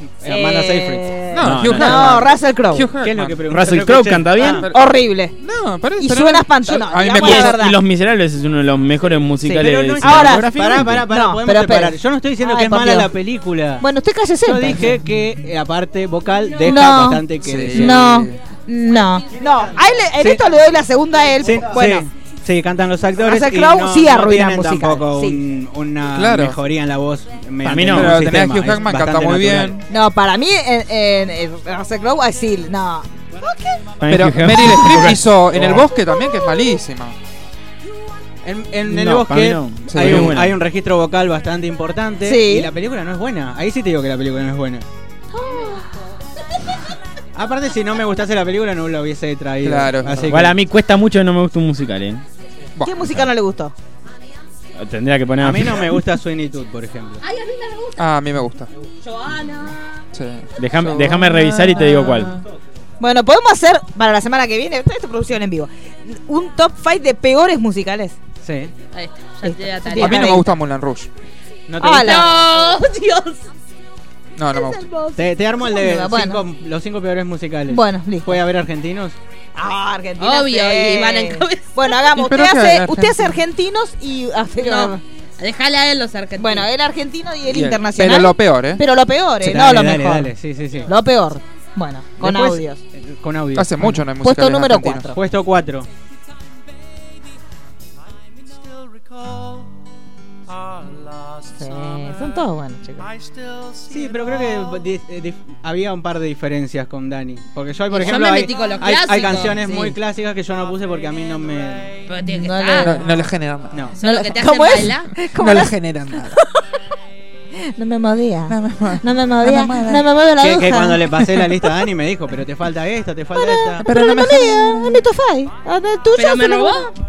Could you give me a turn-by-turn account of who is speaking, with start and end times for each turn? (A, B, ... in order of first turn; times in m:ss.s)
0:00.2-0:01.1 A
0:00.2-0:02.9 B
0:01.3-0:03.4 C
0:01.4-0:02.2 D
0:01.9-0:02.2 A
0:03.0-0:04.7 A
0:03.5-0:04.6 D
0:04.4-0:04.8 C
0:04.7-0:05.3 B
0:05.4-0:07.6 C
0:06.0-0:07.8 B
0:07.1-0:11.1 D
0:09.4-0:13.1 B
0:09.5-0:13.8 A
0:13.8-0:15.0 B
0:14.4-0:18.2 A
0:16.6-0:22.1 B
0:17.4-0:18.4 C
0:20.2-0:20.4 A
0:21.4-0:29.8 A
0:23.2-0:25.4 B
0:26.1-0:26.6 C
0:27.6-0:28.1 D
0:27.9-0:29.8 C
0:29.9-0:33.8 B
0:34.0-0:35.9 D
0:34.1-0:37.2 C
0:38.4-0:44.8 A
0:38.9-0:40.6 D
0:39.9-0:40.4 C
0:42.2-0:42.7 B
0:45.3-0:45.8 B
0:47.3-0:50.6 A
0:49.6-0:50.3 C
0:50.3-0:52.2 D
0:52.8-0:53.2 C
0:52.8-0:53.7 B
0:54.8-0:56.0 D
0:55.4-0:57.2 A
0:57.2-0:58.0 E
0:58.0-0:58.7 C
0:59.0-0:59.8 E
1:00.1-1:02.4 C
1:00.6-1:02.4 D
1:03.0-1:08.2 B
1:08.4-1:08.8 A
1:08.9-1:10.3 E
1:09.4-1:10.4 B
1:10.0-1:11.1 C
1:11.7-1:12.5 A
1:11.8-1:12.7 B
1:12.0-1:13.4 E
1:14.4-1:14.9 C
1:14.5-1:15.2 E
1:15.2-1:19.2 A
1:15.7-1:16.4 B
1:17.7-1:18.4 B
1:19.6-1:25.0 B
1:20.2-1:21.9 E
1:22.1-1:23.4 C
1:24.6-1:26.7 E
1:26.4-1:30.3 B
1:27.5-1:28.8 C
1:29.4-1:30.9 A
1:30.8-1:32.8 B
1:32.2-1:34.0 A
1:33.5-1:35.0 C
1:33.8-1:35.2 B
1:35.1-1:35.9 A
1:41.6-1:43.1 B
1:43.9-1:52.0 A
1:48.0-1:49.6 E
1:49.4-1:50.0 B
1:52.1-1:53.0 E
1:52.2-1:53.0 B
1:52.8-1:53.8 C
1:53.7-1:54.0 A
1:54.0-1:55.1 E
1:54.0-1:56.6 B
1:55.3-1:56.4 C
1:57.6-2:01.5 B
1:58.5-2:00.0 C
2:00.4-2:03.8 A
2:03.4-2:06.9 B
2:03.8-2:05.0 C
2:06.2-2:06.9 E